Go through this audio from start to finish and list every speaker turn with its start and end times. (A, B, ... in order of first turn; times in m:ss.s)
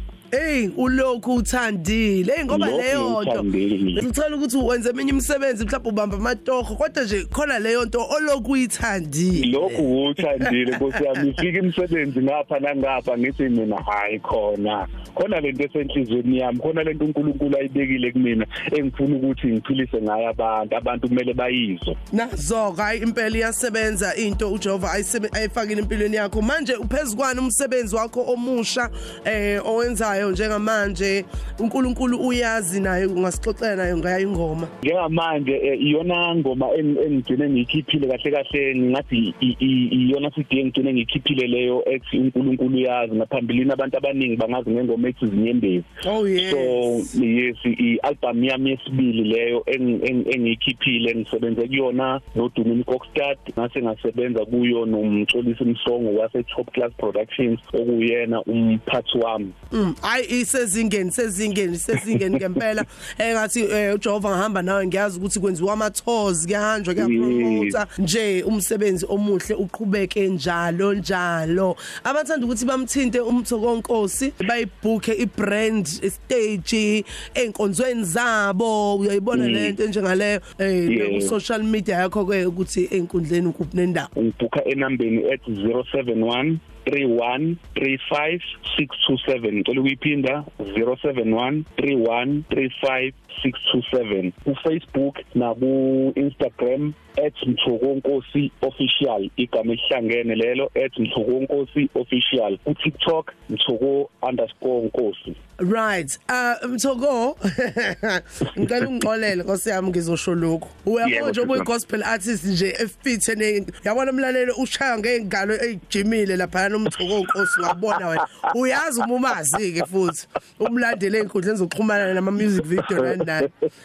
0:00.3-0:09.8 A
0:02.5-0:04.0 B
0:09.4-0:21.9 B
0:22.1-0:34.7 A
0:34.8-0:45.9 B
0:46.0-0:47.0 A
0:46.4-0:59.5 B
0:59.7-1:24.1 A
1:07.0-1:07.8 B
1:19.3-1:19.7 B
1:20.9-1:21.3 B
1:24.2-1:45.4 B
1:45.6-2:03.5 A
1:51.0-1:51.7 B